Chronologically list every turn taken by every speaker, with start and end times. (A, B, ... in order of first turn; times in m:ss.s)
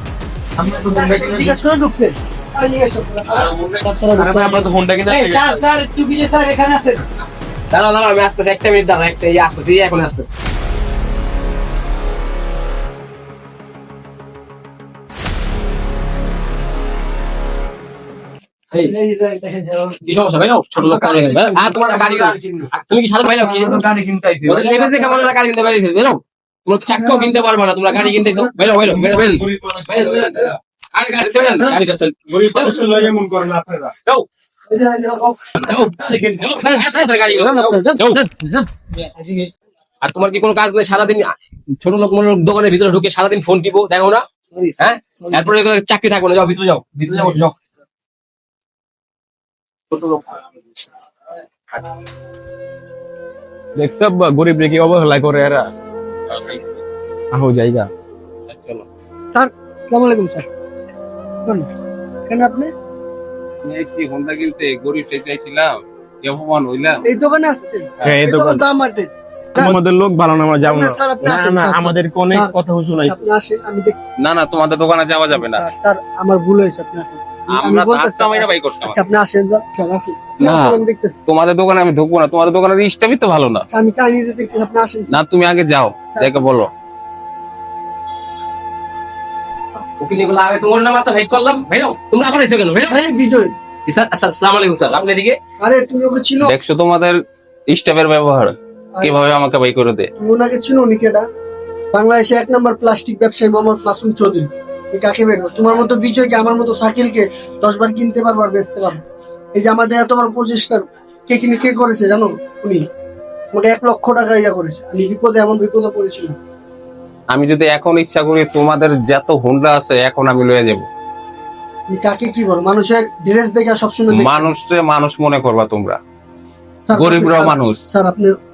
0:00.6-0:01.6 A
0:00.9-0:04.5 B
0:01.0-0:01.3 C
0:03.3-0:03.9 D
0:03.9-0:04.2 C
0:04.1-0:05.7 A
0:05.1-0:06.9 C
0:05.9-0:06.7 B
0:07.7-0:10.4 C
0:18.8-0:19.9 B
0:20.0-0:23.8 C
0:20.8-0:21.2 B
0:21.0-0:22.6 A
0:21.9-0:22.3 B
0:23.4-0:25.2 A
0:24.4-0:32.7 C
0:28.5-0:30.5 A
0:31.7-0:34.0 A
0:34.1-0:38.6 C
0:35.9-0:36.5 A
0:37.4-0:38.2 B
0:40.0-0:47.5 C
0:47.1-0:47.5 A
0:53.8-0:55.7 A
0:56.3-0:56.8 D
0:57.3-0:57.9 A
0:58.5-0:58.8 D
0:59.3-1:00.5 B
1:02.3-1:02.7 B
1:03.6-1:05.7 D
1:06.2-1:07.0 D
1:07.0-1:09.8 B
1:08.0-1:08.6 A
1:09.6-1:13.2 A
1:10.6-1:13.9 B
1:14.2-1:15.6 D
1:15.3-1:21.2 B
1:17.5-1:19.0 D
1:20.4-1:23.6 D
1:23.7-1:25.2 B
1:25.1-1:26.7 D
1:26.1-1:26.4 B
1:30.0-1:33.0 C
1:32.9-1:33.5 B
1:33.8-1:35.4 C
1:35.6-1:36.5 B
1:36.4-1:37.2 D
1:37.7-1:40.1 D
1:40.2-1:41.2 B
1:41.9-1:49.0 B
1:49.6-1:52.8 B
1:53.5-1:56.4 B
1:57.3-2:00.8 D
2:01.9-2:04.5 B
2:04.1-2:06.0 D
2:06.9-2:08.3 B
2:06.9-2:07.8 D